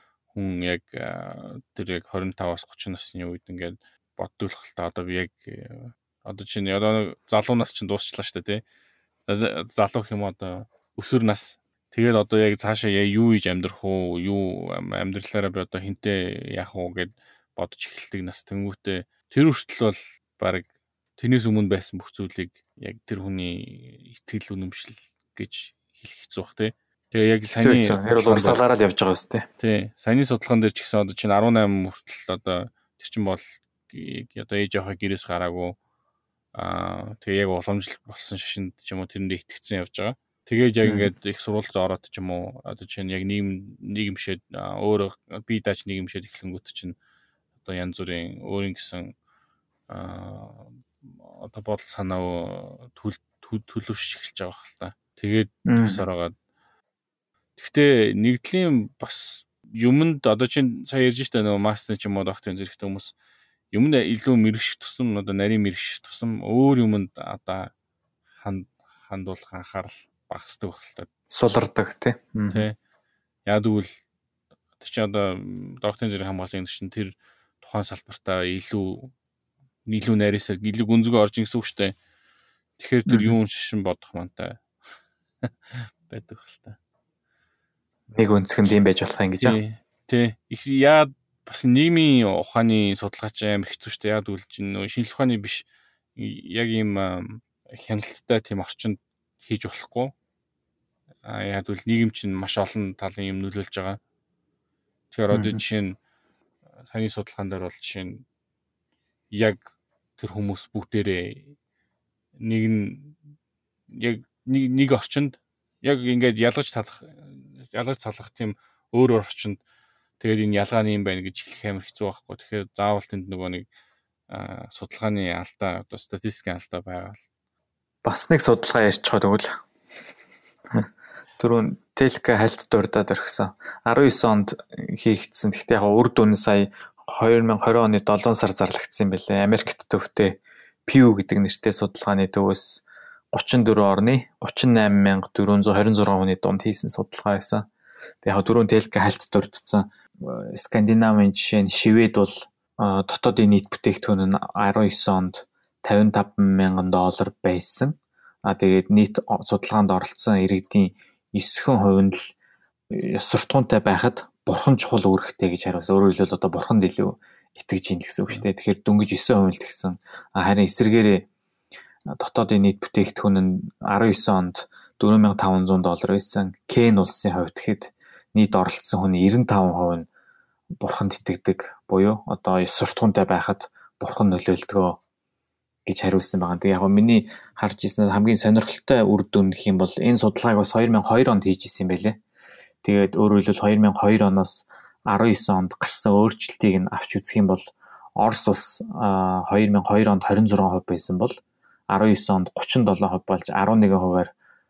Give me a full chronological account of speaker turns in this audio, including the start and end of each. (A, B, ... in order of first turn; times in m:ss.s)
0:00.3-0:08.6 A
0:09.3-0:20.7 A
0:21.2-0:28.6 A
0:27.6-0:29.5 B
0:29.6-0:35.8 A
0:36.6-0:47.0 A
0:40.8-0:41.1 B
0:47.6-0:49.1 A
0:49.9-0:56.3 A
0:55.6-0:56.0 B
0:57.6-1:03.1 A
1:03.7-1:07.7 A
1:08.4-1:11.1 A
1:11.3-1:12.6 B
1:12.5-1:12.8 A
1:13.5-1:13.9 A
1:14.8-1:19.1 A
1:19.9-1:22.0 A
1:22.8-1:24.6 A
1:23.1-1:23.3 B
1:25.4-1:26.8 A
1:28.1-1:29.6 B
1:29.4-1:35.6 A
1:36.2-1:40.1 A
1:41.2-1:44.0 A
1:45.1-1:46.0 A
1:45.3-1:45.6 B
1:46.9-1:48.2 A
1:49.3-1:51.6 A
1:52.4-1:53.2 A
1:53.9-1:59.6 A
2:00.2-2:03.7 A
2:04.3-2:07.2 A
2:08.0-2:09.6 B
2:11.4-2:27.7 B
2:28.2-2:42.3 B
2:42.9-2:51.3 B
2:52.1-3:00.1 B
3:00.8-3:05.0 B
3:05.9-3:12.2 B
3:12.8-3:21.4 B
3:21.9-3:24.3 B